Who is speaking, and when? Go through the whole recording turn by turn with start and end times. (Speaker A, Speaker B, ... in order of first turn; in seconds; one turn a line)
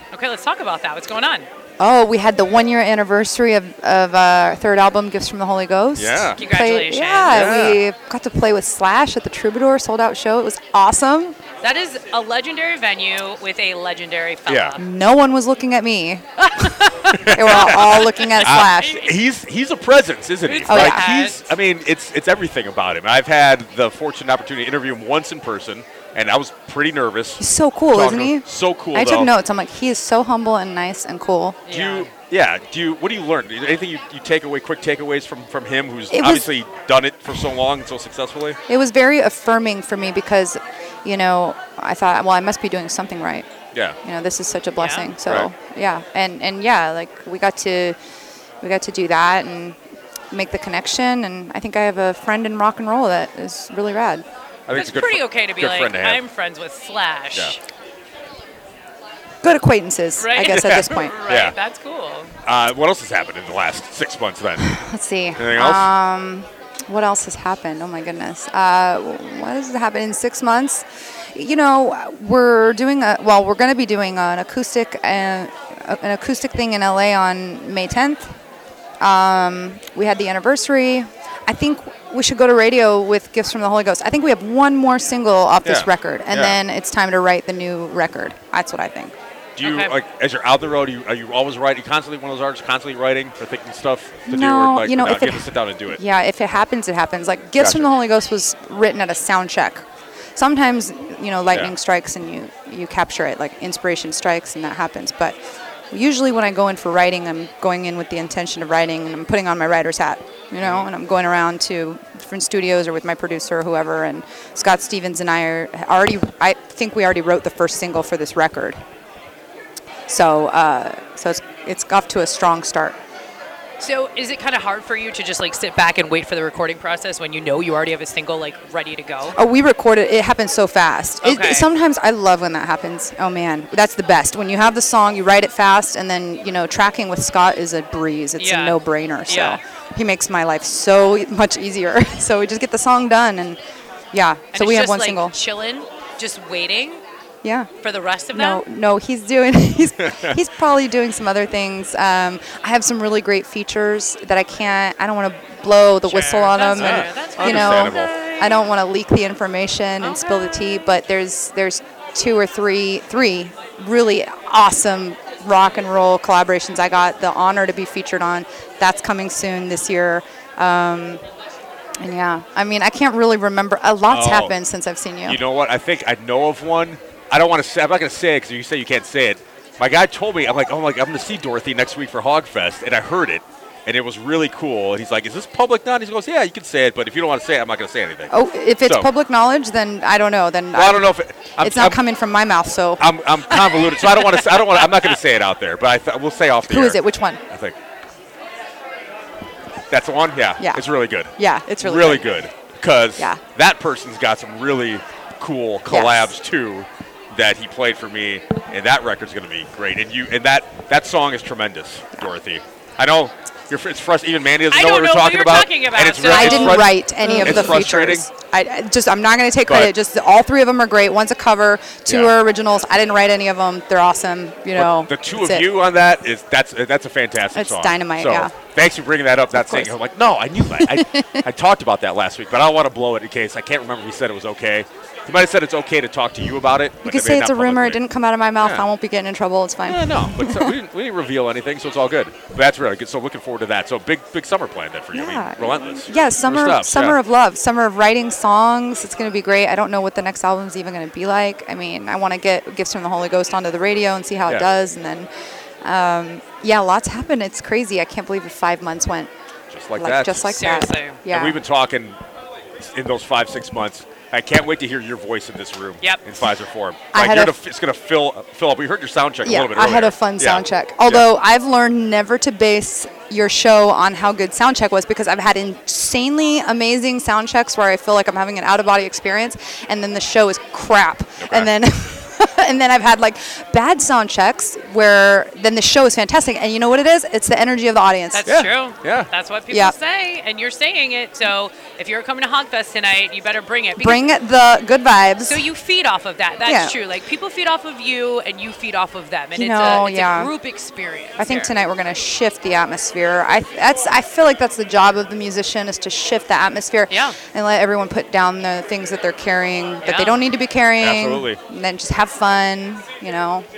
Speaker A: 0.1-1.5
Speaker B: 1.8-11.4
Speaker C: 6.0-6.4
Speaker A: 6.4-7.3
Speaker C: 7.3-7.8
Speaker A: 11.6-14.8
Speaker C: 14.5-14.8
Speaker B: 14.8-19.0
Speaker A: 16.6-19.1
Speaker C: 17.1-29.3
Speaker A: 20.5-21.5
Speaker B: 20.7-21.1
Speaker B: 27.4-31.6
Speaker A: 31.7-32.1
Speaker C: 31.7-38.6
Speaker B: 36.1-36.5
Speaker B: 38.7-43.5
Speaker B: 44.0-48.0
Speaker A: 44.8-45.1
Speaker B: 48.6-49.8
Speaker B: 50.3-54.2
Speaker C: 54.7-56.2
Speaker A: 54.7-57.6
Speaker B: 59.4-61.2
Speaker A: 60.2-62.3
Speaker C: 60.5-61.5
Speaker C: 62.4-64.7
Speaker B: 64.6-78.3
Speaker C: 65.4-65.9
Speaker B: 79.0-89.2
Speaker C: 85.6-86.6
Speaker C: 89.6-96.0
Speaker A: 89.6-90.0
Speaker B: 94.3-99.8
Speaker C: 97.6-97.9
Speaker B: 100.4-105.4
Speaker B: 105.9-118.8
Speaker C: 110.6-110.9
Speaker B: 120.1-123.0
Speaker A: 123.8-129.4
Speaker B: 129.3-143.6
Speaker A: 131.2-131.7
Speaker A: 138.4-139.6
Speaker B: 144.1-145.3
Speaker A: 144.5-147.0
Speaker B: 147.4-147.7
Speaker A: 147.8-148.6
Speaker B: 148.3-171.2
Speaker A: 156.0-158.6
Speaker C: 156.8-158.1
Speaker A: 160.0-160.4
Speaker B: 172.0-175.4
Speaker C: 174.1-174.6
Speaker C: 175.3-189.1
Speaker B: 188.3-193.1
Speaker C: 190.7-192.0
Speaker C: 193.0-197.8
Speaker B: 196.7-197.4
Speaker C: 199.9-218.3
Speaker B: 201.4-202.4
Speaker B: 205.9-206.3
Speaker A: 214.7-216.9
Speaker B: 216.2-225.7
Speaker C: 219.7-219.9
Speaker C: 222.1-222.3
Speaker C: 224.8-238.0
Speaker B: 227.5-228.5
Speaker B: 229.6-229.9
Speaker B: 230.6-231.4
Speaker B: 237.0-240.8
Speaker C: 238.6-238.8
Speaker C: 239.9-247.2
Speaker B: 245.1-255.3
Speaker B: 255.8-259.3
Speaker C: 259.7-260.5
Speaker B: 260.0-261.6
Speaker A: 260.4-261.2
Speaker C: 261.3-262.2
Speaker C: 262.8-271.2
Speaker B: 267.1-267.5
Speaker B: 269.4-288.5
Speaker C: 281.4-281.7
Speaker A: 288.3-294.2
Speaker C: 288.5-289.3
Speaker B: 289.7-290.0
Speaker B: 294.0-295.6
Speaker A: 295.4-301.7
Speaker B: 296.6-297.0
Speaker B: 299.5-300.5
Speaker B: 301.4-313.7
Speaker A: 307.1-307.4
Speaker A: 310.0-310.4
Speaker C: 311.0-311.6